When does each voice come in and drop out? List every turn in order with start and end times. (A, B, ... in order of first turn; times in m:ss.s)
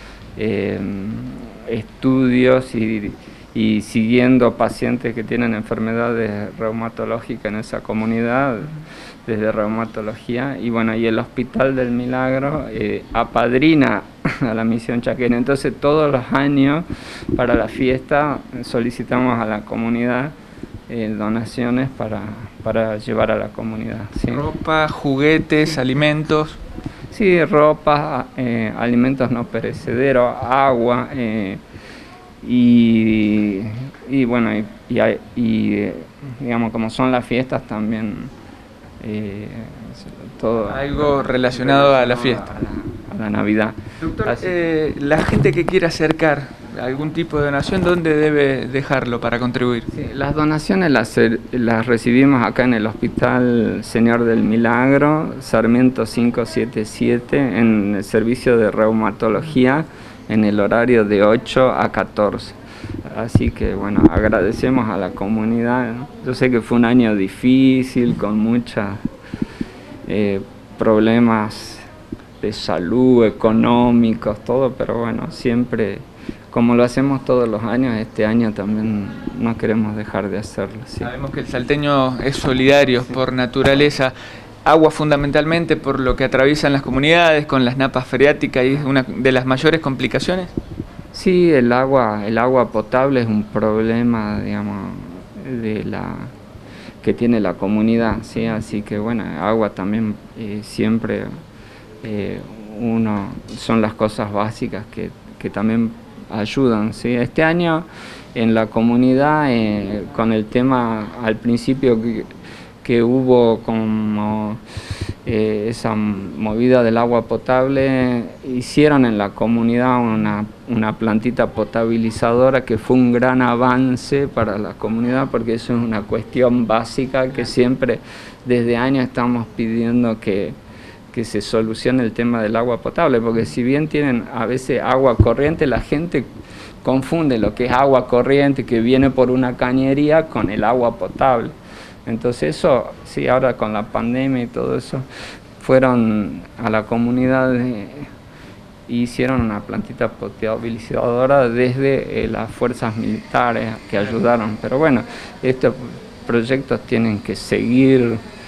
0:00.4-0:20.3 A
0:20.9-0:24.5 A
0:24.3-0:26.6 B
0:27.1-0:31.6 A
0:32.4-0:38.3 A
0:39.0-0:44.5 A
0:40.6-0:42.5 B
0:44.0-0:49.9 B
0:49.9-1:09.0 A
1:10.0-1:11.9 A
1:12.4-1:21.1 A
1:21.0-1:24.1 B
1:24.6-1:30.5 B
1:31.1-1:36.3 A
1:37.0-1:41.3 A
1:42.0-1:52.3 A
1:52.8-1:54.6 A
1:55.2-2:10.6 A
2:11.1-2:16.3 A
2:16.8-2:21.5 A
2:22.0-2:25.0 A
2:25.6-2:28.1 A
2:28.9-2:38.2 A